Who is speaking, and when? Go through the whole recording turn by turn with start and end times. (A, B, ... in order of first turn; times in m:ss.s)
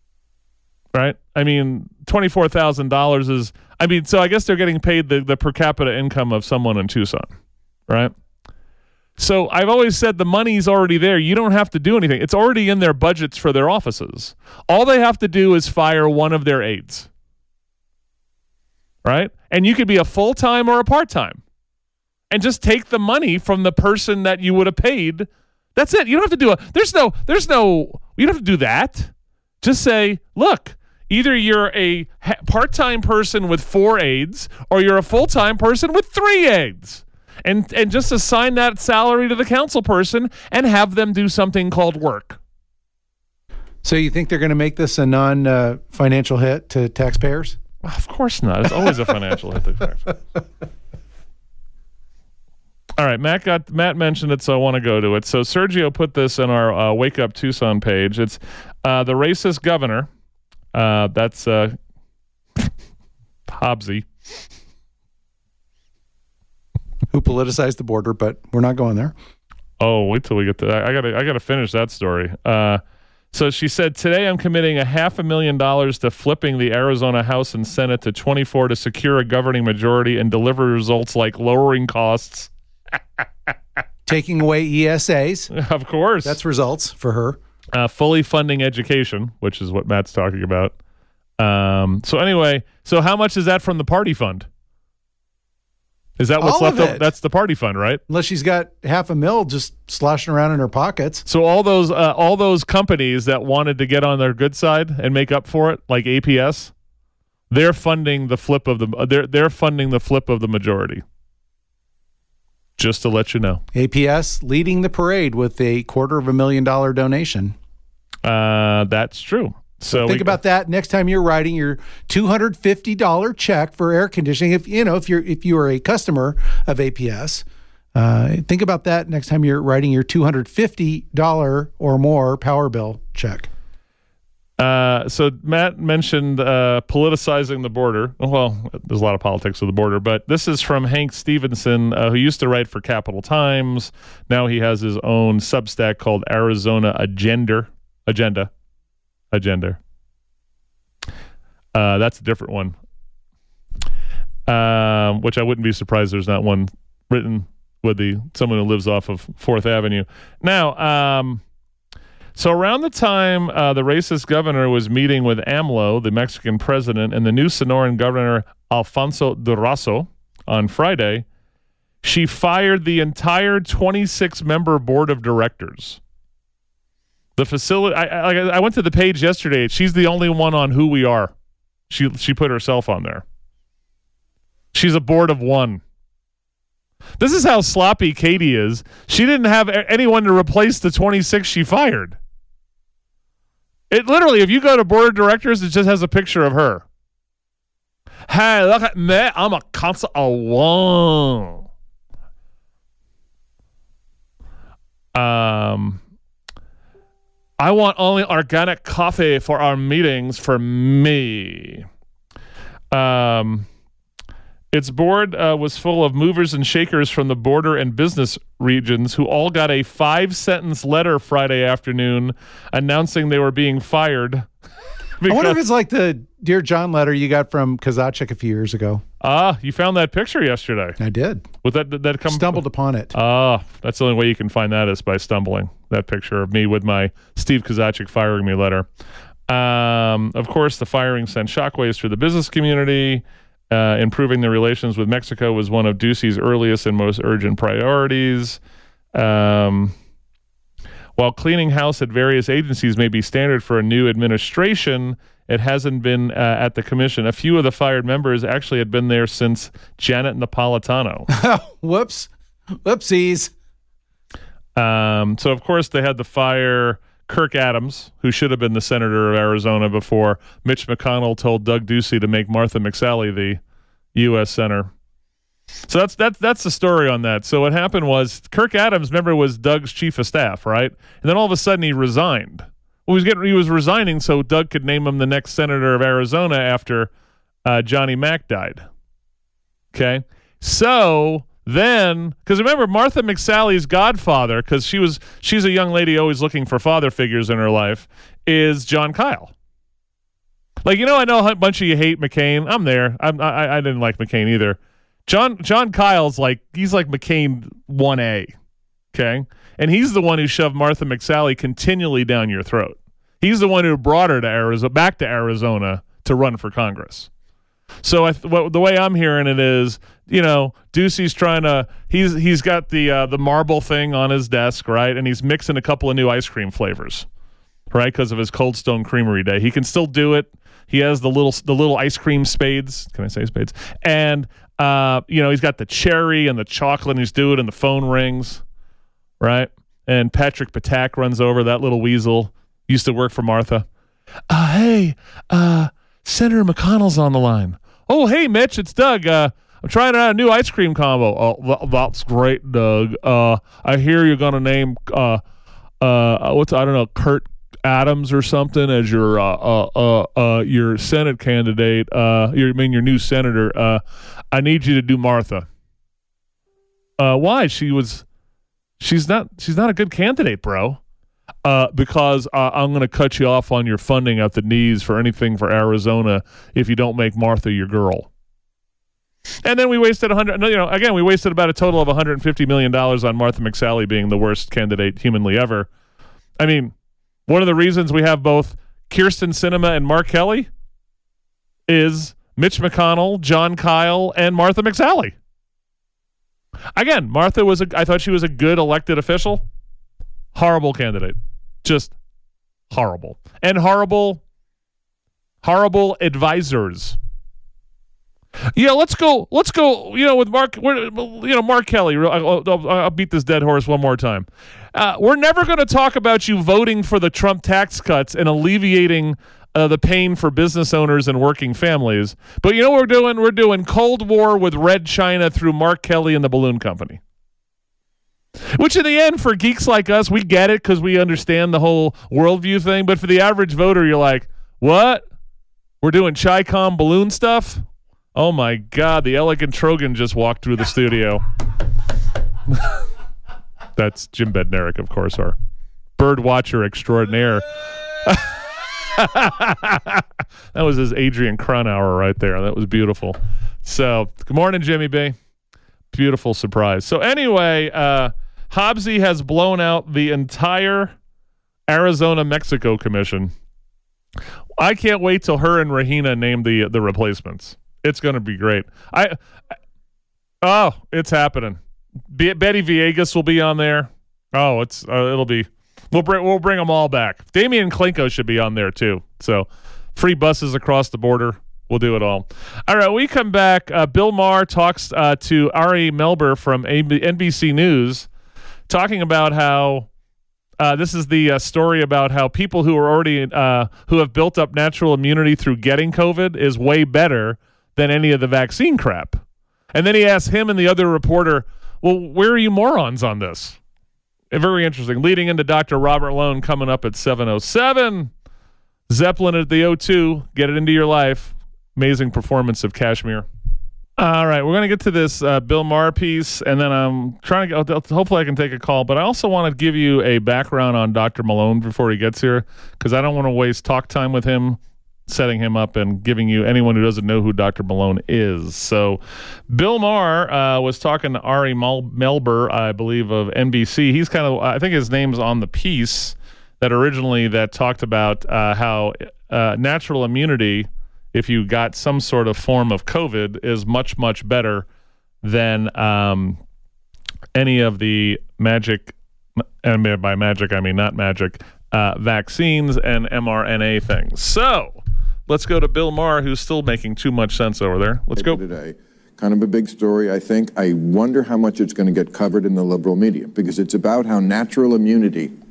0:00.9-0:07.3 A
0:07.9-0:08.1 A
0:09.2-0:17.1 A
0:19.0-0:21.4 A
0:22.3-0:29.1 A
0:29.6-0:42.4 A
0:43.8-0:47.6 B
0:47.8-0:50.2 A
0:53.0-1:00.1 A
1:00.7-1:01.8 A
1:03.5-1:04.1 A
1:07.1-1:09.2 B
1:09.8-1:12.8 A
1:13.3-1:22.5 A
1:24.1-1:25.5 B
1:25.5-1:26.4 A
1:26.2-1:27.4 B
1:27.8-1:30.7 A
1:31.4-1:34.5 A
1:36.2-1:38.0 A
1:36.4-1:37.1 B
1:38.1-1:41.3 B
1:41.3-1:46.7 A
1:47.5-1:51.0 A
1:52.8-1:53.6 A
1:53.7-1:57.6 B
1:58.2-2:00.4 A
1:59.9-2:13.5 B
2:14.6-2:28.5 A
2:29.3-2:29.8 A
2:31.8-2:32.8 A
2:34.5-2:41.4 A
2:42.4-2:51.2 A
2:52.0-2:56.0 A
2:57.4-3:01.3 A
3:01.9-3:03.2 A
3:04.7-3:05.8 A
3:07.2-3:12.2 A
3:13.9-3:16.8 A
3:18.3-3:21.6 A
3:25.2-3:26.0 A
3:27.6-3:31.9 A
3:32.9-3:33.7 A
3:34.7-3:44.5 A
3:45.2-3:45.6 A
3:45.3-3:49.0 B
3:49.2-3:51.0 A
3:51.0-3:51.5 B
3:51.6-3:52.6 A
3:52.3-3:53.1 B
3:53.1-3:58.9 A
3:59.5-4:08.6 A
4:09.1-4:09.9 A
4:11.2-4:21.3 A
4:21.3-4:22.3 B
4:22.8-4:23.5 B
4:24.8-4:33.6 A
4:34.2-4:34.9 A
4:35.9-4:47.1 A
4:47.6-4:48.8 A
4:49.9-4:59.5 A
5:00.8-5:08.5 A
5:09.1-5:17.3 A
5:18.0-5:27.3 A
5:27.9-5:38.6 A
5:39.4-5:43.9 A
5:44.5-5:55.4 A
5:56.0-6:05.7 A
6:07.2-6:08.2 A
6:09.0-6:11.0 A
6:11.6-6:18.3 A
6:19.6-6:25.9 A
6:26.6-6:26.9 A
6:27.5-6:30.7 A
6:31.9-6:35.4 A
6:37.0-6:39.6 A
6:40.5-6:42.1 A
6:42.9-6:44.4 A
6:45.6-6:47.2 A
6:48.7-7:07.2 A
7:08.7-7:15.2 A
7:16.0-7:21.4 A
7:24.0-7:25.6 A
7:26.2-7:27.6 A
7:28.2-7:28.6 A
7:29.1-7:35.4 A
7:36.1-7:41.2 A
7:41.9-7:43.5 A
7:44.8-7:49.4 A
7:50.6-7:51.8 A
7:52.3-8:08.3 A
8:08.9-8:10.1 A
8:10.8-8:19.4 A
8:19.9-8:23.8 A
8:24.5-8:28.3 A
8:29.1-8:33.5 A
8:34.2-9:04.9 A
9:05.4-9:06.6 A
9:07.6-9:09.2 A
9:09.8-9:18.6 A
9:18.4-9:25.5 C